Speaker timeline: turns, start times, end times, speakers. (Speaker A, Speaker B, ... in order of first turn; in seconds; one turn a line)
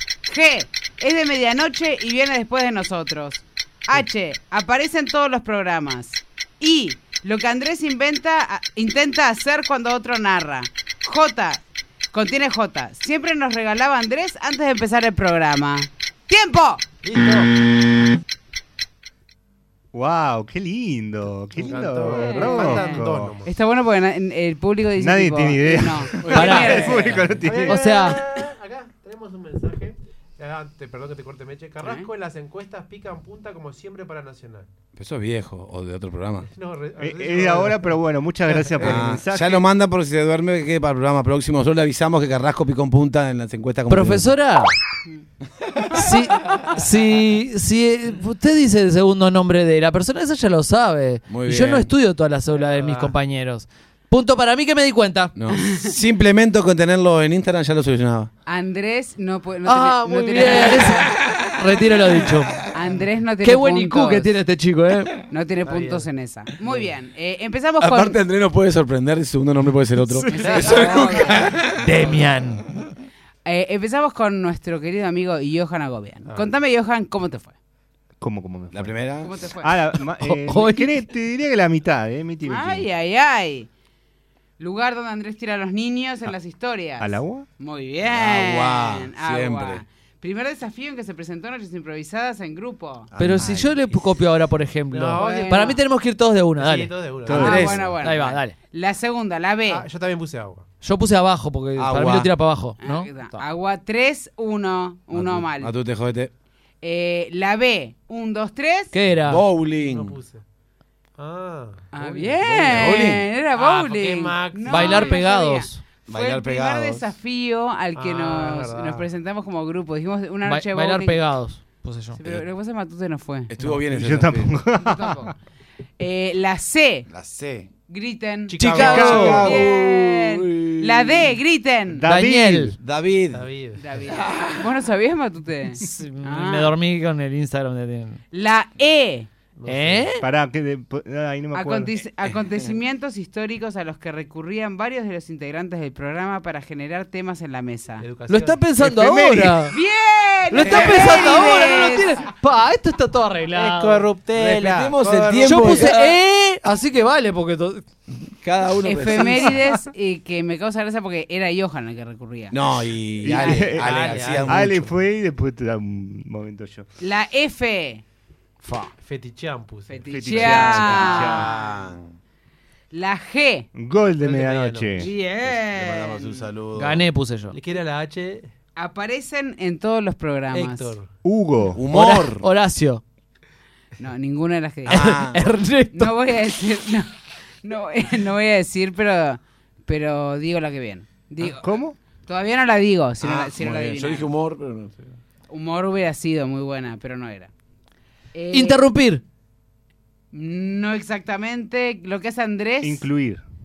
Speaker A: 0.2-11.6
Speaker A: 12.1-16.8
Speaker B: 17.0-17.5
Speaker C: 19.9-23.4
Speaker B: 21.6-23.5
Speaker A: 22.2-27.7
Speaker C: 25.0-28.1
Speaker D: 26.2-27.4
Speaker E: 26.3-28.2
Speaker B: 28.1-34.7
Speaker A: 31.8-32.1
Speaker D: 34.9-36.5
Speaker B: 36.5-38.0
Speaker C: 37.0-39.6
Speaker B: 38.6-39.0
Speaker D: 38.8-44.4
Speaker E: 43.9-44.7
Speaker E: 45.9-55.3
Speaker D: 51.3-51.9
Speaker B: 52.6-53.1
Speaker D: 55.3-58.3
Speaker A: 55.6-55.9
Speaker A: 58.5-61.0
Speaker E: 59.6-62.6
Speaker A: 62.7-64.3
Speaker E: 63.4-65.2
Speaker A: 65.3-68.2
Speaker B: 65.7-66.1
Speaker D: 67.8-72.0
Speaker A: 70.2-71.5
Speaker E: 71.8-72.7
Speaker A: 73.4-77.5
Speaker C: 78.2-79.0
Speaker D: 78.7-79.3
Speaker A: 79.2-79.8
Speaker C: 79.6-82.9
Speaker E: 80.2-81.1
Speaker A: 82.4-83.7
Speaker A: 84.6-93.1
Speaker C: 87.0-87.5
Speaker D: 88.0-89.8
Speaker D: 93.1-94.0
Speaker E: 93.2-97.0
Speaker B: 94.9-95.8
Speaker A: 95.2-95.8
Speaker B: 96.5-97.9
Speaker C: 97.3-97.7
Speaker A: 97.3-99.9
Speaker D: 97.3-97.9
Speaker E: 98.0-98.5
Speaker B: 99.7-100.6
Speaker E: 100.8-103.4
Speaker D: 101.8-102.3
Speaker A: 102.8-105.7
Speaker D: 105.1-106.3
Speaker A: 106.8-108.9
Speaker E: 108.9-109.4
Speaker D: 109.2-110.2
Speaker B: 109.7-110.4
Speaker B: 111.2-112.8
Speaker A: 111.9-121.2
Speaker D: 112.5-113.2
Speaker B: 113.5-115.2
Speaker E: 114.7-115.8
Speaker D: 116.1-117.1
Speaker B: 118.0-119.1
Speaker E: 120.4-122.2
Speaker A: 122.2-123.5
Speaker D: 123.5-124.6
Speaker C: 123.8-125.3
Speaker A: 124.7-125.3
Speaker A: 126.0-127.1
Speaker D: 127.1-127.7
Speaker A: 127.9-132.0
Speaker B: 128.5-129.5
Speaker C: 128.6-129.5
Speaker D: 128.8-131.3
Speaker E: 129.1-129.3
Speaker C: 132.0-132.8
Speaker E: 132.1-132.8
Speaker D: 132.8-133.5
Speaker B: 133.3-133.8
Speaker A: 133.8-136.7
Speaker D: 134.1-134.7
Speaker E: 135.8-138.2
Speaker A: 138.3-139.3
Speaker B: 139.6-140.2
Speaker E: 139.7-140.2
Speaker C: 140.2-141.9
Speaker A: 141.5-148.1
Speaker B: 148.0-148.6
Speaker E: 148.3-149.7
Speaker C: 148.8-149.7
Speaker A: 149.7-152.2
Speaker E: 150.5-154.1
Speaker D: 150.6-151.3
Speaker B: 153.5-155.9
Speaker D: 154.3-156.2
Speaker E: 155.4-157.8
Speaker D: 158.3-159.6
Speaker A: 158.8-162.6
Speaker D: 162.5-164.9
Speaker C: 163.2-166.9
Speaker A: 163.3-163.9
Speaker B: 163.8-164.9
Speaker A: 167.0-168.0
Speaker E: 168.6-168.9
Speaker B: 169.0-170.6
Speaker A: 169.9-171.7
Speaker C: 170.1-171.5
Speaker D: 170.3-172.1
Speaker A: 172.9-173.7
Speaker C: 173.7-175.1
Speaker B: 174.2-175.1
Speaker A: 175.0-176.4
Speaker D: 175.2-177.1
Speaker E: 176.7-177.6
Speaker B: 177.5-178.5
Speaker A: 178.8-180.9
Speaker B: 180.5-181.1
Speaker C: 181.2-181.8
Speaker D: 181.7-182.5
Speaker E: 181.9-183.0
Speaker A: 184.0-185.1
Speaker D: 184.8-185.4
Speaker E: 184.9-186.1
Speaker A: 185.9-187.1
Speaker A: 187.6-191.7
Speaker C: 191.4-192.0
Speaker A: 192.2-194.3
Speaker D: 193.2-195.1
Speaker A: 195.5-197.5
Speaker A: 198.3-198.8
Speaker E: 198.5-199.2
Speaker A: 200.3-203.0
Speaker C: 202.8-203.4